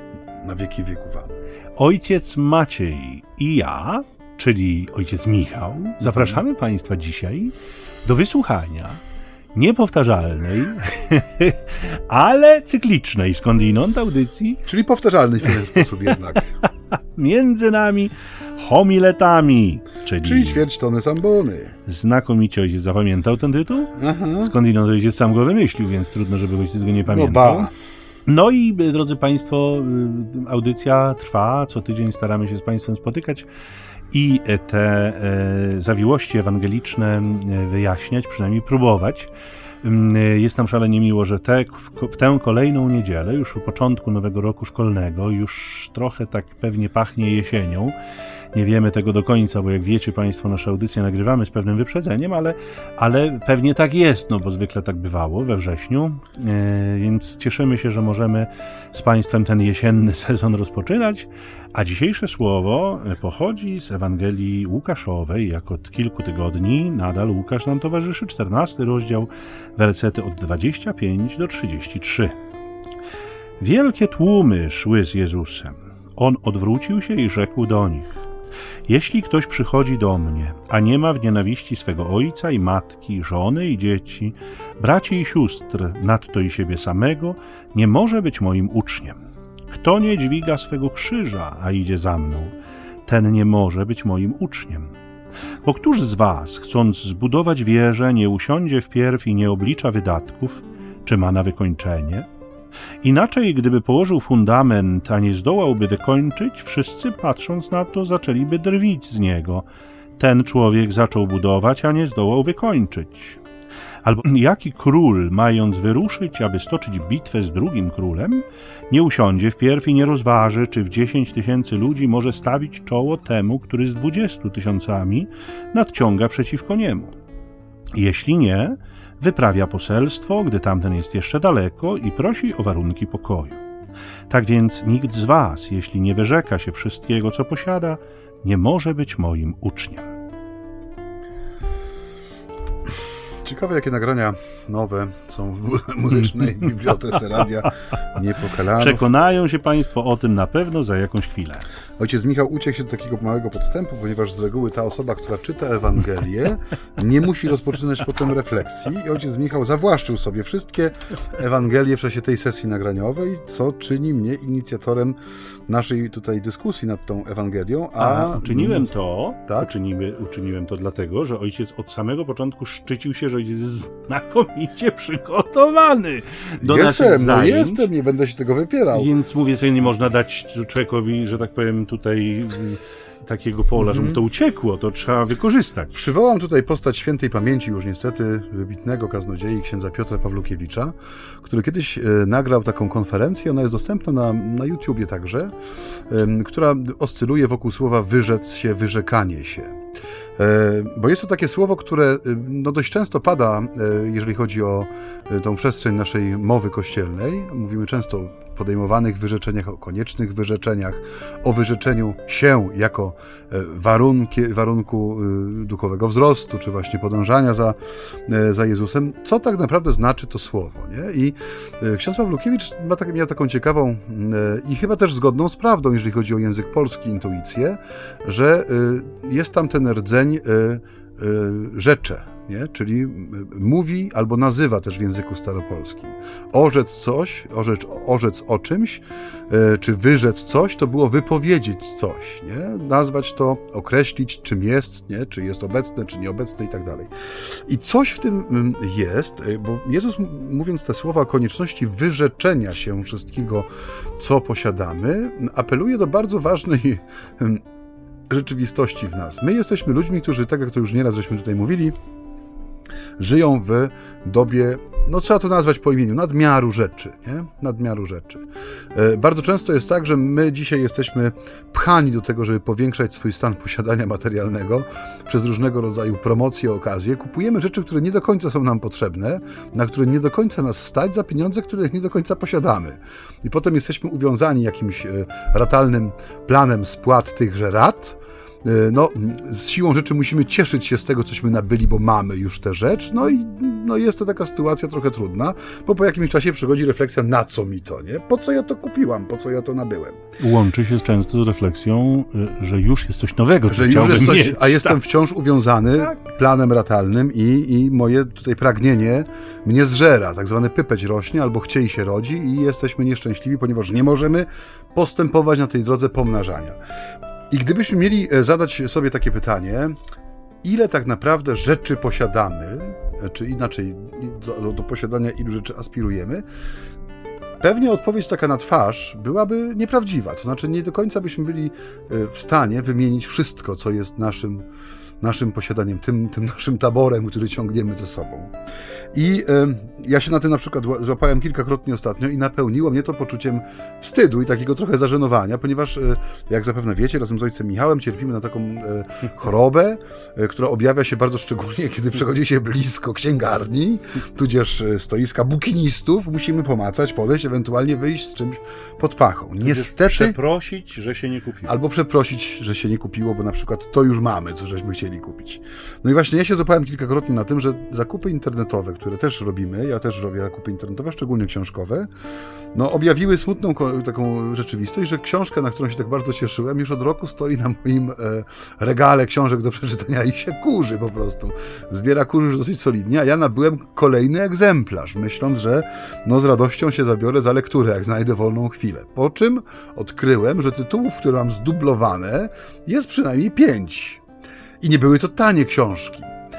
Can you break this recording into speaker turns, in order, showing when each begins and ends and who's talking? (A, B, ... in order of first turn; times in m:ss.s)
0:00.4-0:01.4 A
0:01.8-0:07.5 B
0:06.0-0:06.4 A
0:08.0-0:09.0 B
0:09.5-0:14.6 B
0:14.7-0:16.6 A
0:17.2-0:20.6 B
0:20.2-0:21.7 A
0:21.9-0:27.7 B
0:24.0-0:24.5 A
0:27.1-0:27.7 A
0:28.3-0:33.5 B
0:34.1-0:39.3 B
0:39.8-0:47.9 B
0:48.5-1:12.4 B
1:13.6-1:18.2 B
1:18.9-1:29.2 B
1:29.7-1:32.5 B
1:33.1-1:34.9 B
1:35.6-1:42.3 B
1:43.0-1:49.7 B
1:50.2-1:53.4 B
1:54.0-2:07.2 B
2:08.0-2:13.6 B
2:14.3-2:20.1 B
2:23.4-2:29.1 A
2:28.8-2:31.7 B
2:32.0-2:48.9 A
2:48.0-2:57.9 B
2:56.6-2:59.1 A
2:58.9-3:06.0 B
3:03.9-3:04.1 A
3:05.9-3:15.5 A
3:16.1-3:19.8 A
3:20.4-4:13.7 A
4:14.2-4:17.6 A
4:18.3-4:22.0 A
4:23.2-5:00.2 A
5:00.4-5:05.0 B
5:03.7-5:16.8 A
5:17.5-5:20.0 A
5:20.6-5:26.4 A
5:27.6-5:34.7 A
5:35.2-5:38.6 A
5:39.1-6:00.4 A
5:59.6-6:01.7 B
6:01.7-6:12.1 A
6:12.7-6:34.2 A
6:34.8-6:36.3 A